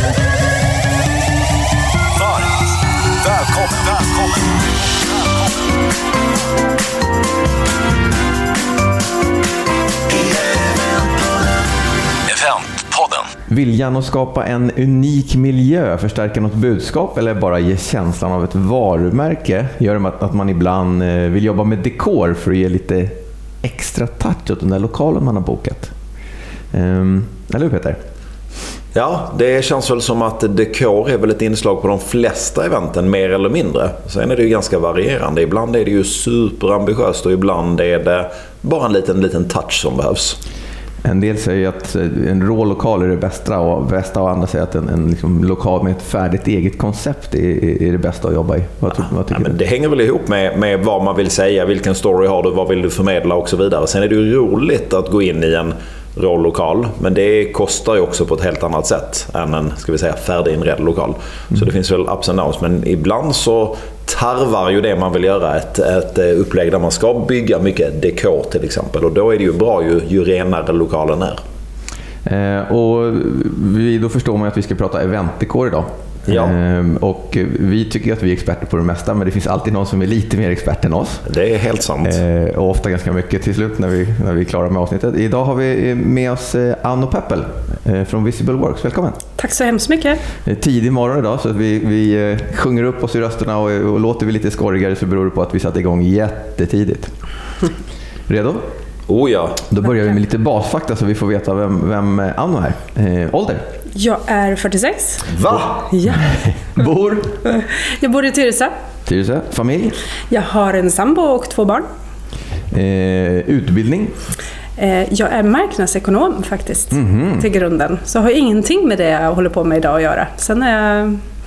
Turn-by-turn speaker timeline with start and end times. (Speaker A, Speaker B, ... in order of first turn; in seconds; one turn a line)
Speaker A: 3.2-4.4
Speaker A: 12.3-13.3
Speaker B: 13.5-25.9
Speaker B: 26.7-28.0
Speaker C: 28.9-40.4
Speaker B: 41.0-49.5
Speaker C: 49.3-71.4
Speaker B: 72.2-81.2
Speaker C: 76.3-76.5
Speaker C: 81.2-82.2
Speaker B: 82.0-89.2
Speaker D: 89.4-90.2
Speaker B: 90.4-97.1
Speaker B: 98.3-98.7
Speaker C: 99.1-99.6
Speaker B: 99.7-103.6
Speaker D: 103.9-106.4
Speaker C: 105.3-105.7
Speaker B: 106.1-107.4
Speaker D: 107.5-108.7
Speaker B: 109.0-110.0
Speaker D: 110.3-111.8
Speaker B: 112.7-114.2
Speaker D: 114.8-121.2
Speaker B: 116.9-117.4